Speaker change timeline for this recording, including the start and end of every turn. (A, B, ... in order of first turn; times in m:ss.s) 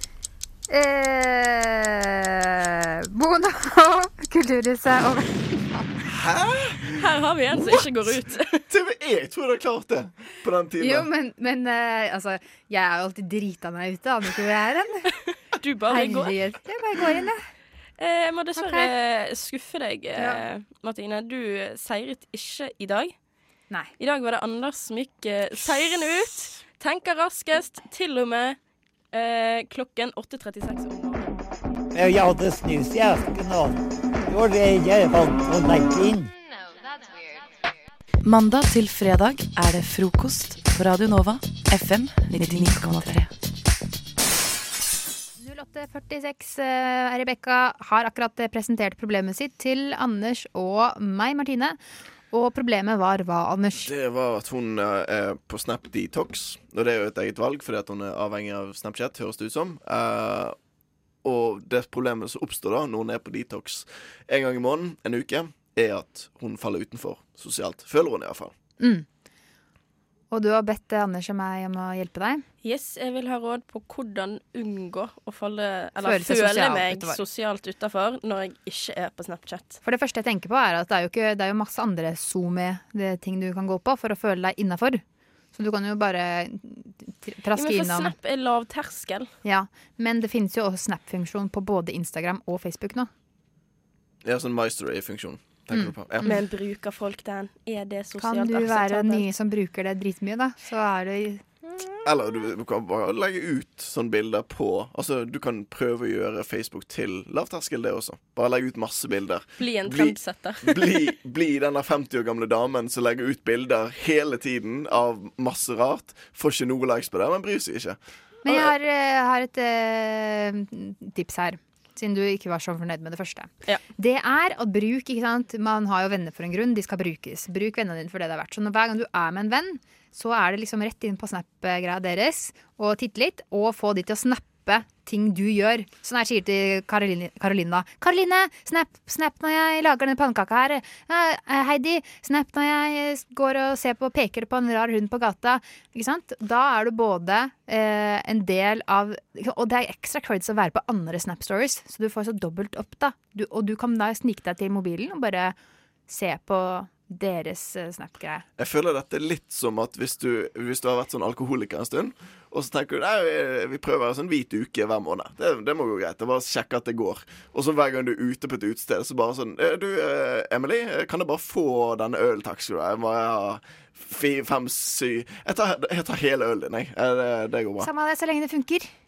0:00.7-0:05.9 A
0:06.1-0:07.0 B
0:07.0-0:08.6 C
0:08.7-0:11.1 B
0:10.8-0:15.0 A
0:15.6-0:16.4 C
0:15.9-0:17.4 A
0:18.0-0:23.1 C
0:18.6-0:18.9 A
0:24.0-0:28.6 C
0:25.8-0:26.1 B
0:29.1-0:31.4 C
0:31.9-0:36.3 D
0:38.2-0:43.3 E
0:45.4-0:51.8 A
0:52.3-0:53.9 A
0:53.7-1:00.5 B
1:01.2-1:08.5 B
1:08.8-1:09.0 A
1:10.3-1:12.4 A
1:12.6-1:19.8 C
1:16.0-1:17.2 A
1:19.8-1:25.0 A
1:25.5-1:28.1 A
1:27.5-1:29.3 C
1:29.4-1:33.1 A
1:34.2-1:36.4 B
1:35.7-1:36.4 A
1:36.2-1:39.3 C
1:38.2-1:41.4 A
1:42.0-1:58.7 B
1:49.6-1:51.1 C
1:58.4-2:35.5 A
2:36.1-2:38.4 A
2:38.6-2:57.9 B
2:57.8-2:58.9 A